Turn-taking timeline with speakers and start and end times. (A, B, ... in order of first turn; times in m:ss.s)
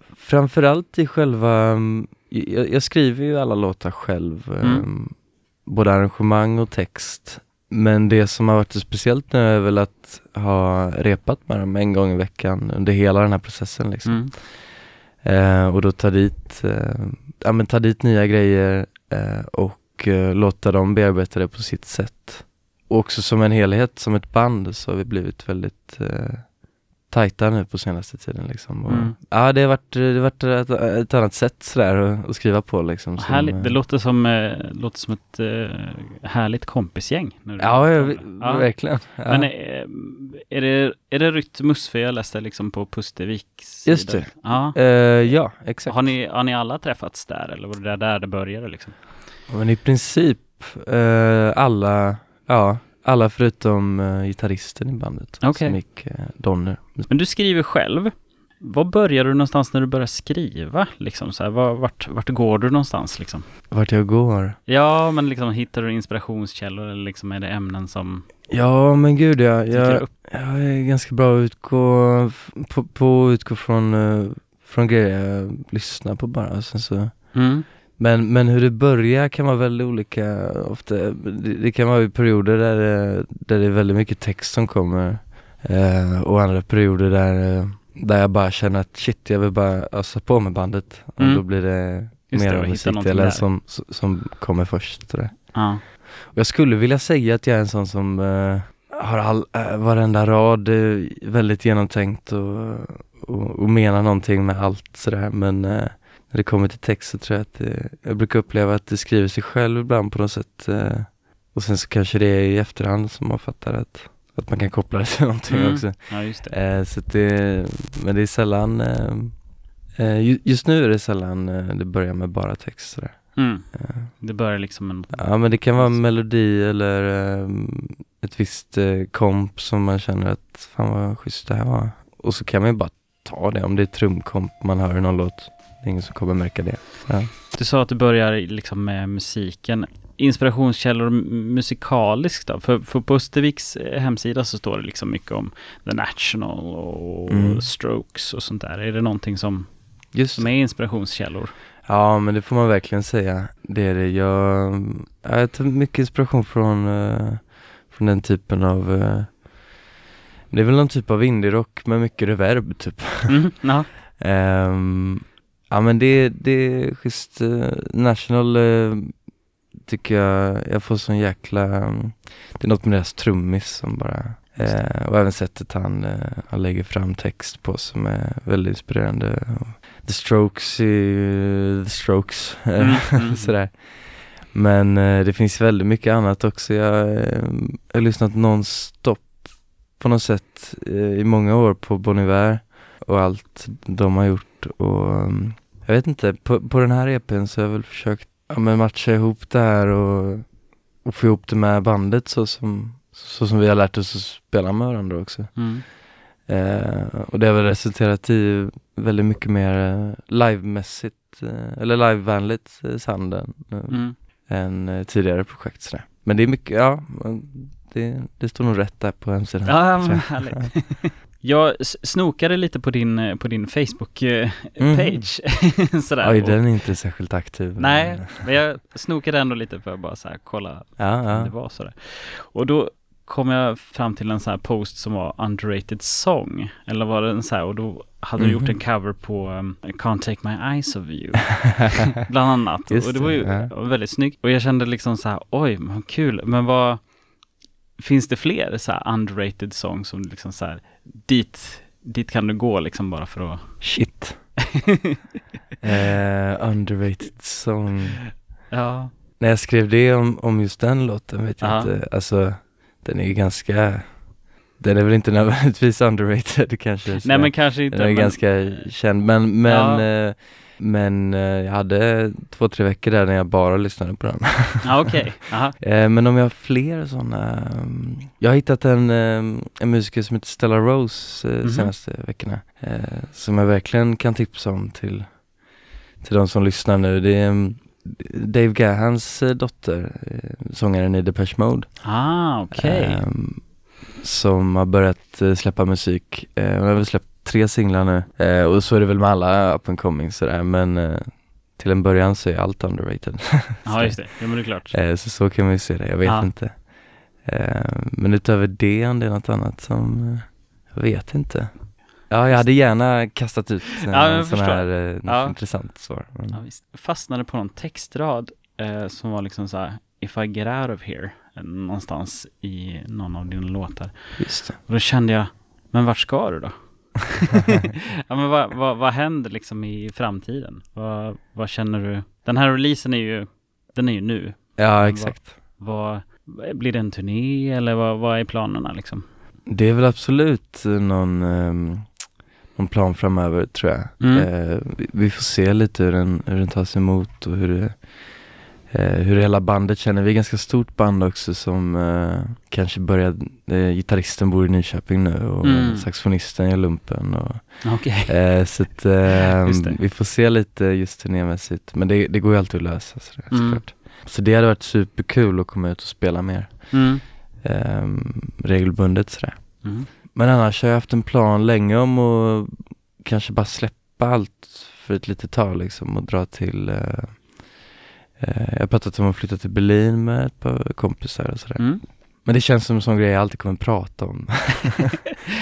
0:00.1-0:33.8 A
0:04.6-0:04.9 B
0:14.0-0:14.3 B
0:28.9-0:29.2 B
0:33.2-0:49.0 B
0:37.6-0:39.5 A
0:43.8-0:46.2 A
0:49.5-0:57.1 A
0:55.4-0:55.8 B
0:57.1-1:03.5 B
1:03.7-1:04.6 A
1:04.6-1:08.3 B
1:08.5-2:04.2 A
1:09.7-1:10.1 B
1:17.3-1:17.7 B
1:31.2-1:33.5 B
1:35.5-1:35.8 B
1:55.5-1:56.6 B
2:03.3-2:06.1 B
2:05.1-2:17.3 A
2:17.5-2:31.5 B
2:27.3-2:27.7 A
2:30.1-2:30.5 A
2:31.8-2:39.8 A
2:40.5-2:43.6 A
2:43.3-2:43.9 B
2:44.2-3:40.8 A
2:54.6-2:54.9 B
3:02.8-3:03.6 B
3:25.5-3:25.8 B
3:33.9-3:34.2 B
3:39.6-3:47.0 B
3:44.8-3:48.5 A
3:47.8-4:07.1 B
3:51.0-3:51.5 A
3:58.4-3:58.8 A
4:02.9-4:03.7 A
4:08.0-4:14.3 B
4:13.8-4:14.6 A
4:15.8-4:18.3 A
4:18.7-4:19.1 B
4:19.4-4:35.2 A
4:21.6-4:21.9 B
4:27.1-4:30.1 B
4:34.8-4:35.8 B
4:35.8-4:45.6 A
4:41.6-4:41.9 B
4:46.2-5:16.6 A
4:52.0-4:53.2 B
5:03.8-5:05.0 B
5:06.2-5:06.5 B
5:12.4-5:13.1 B
5:14.1-5:39.3 B
5:24.4-5:24.8 A
5:34.8-5:35.5 A
5:39.7-6:17.8 A
5:44.2-5:44.5 B
5:55.6-5:56.1 B
5:57.8-6:00.0 B
6:03.5-6:03.8 B
6:06.9-6:07.2 B
6:09.8-6:10.1 B
6:18.4-6:25.2 A
6:21.8-6:22.0 B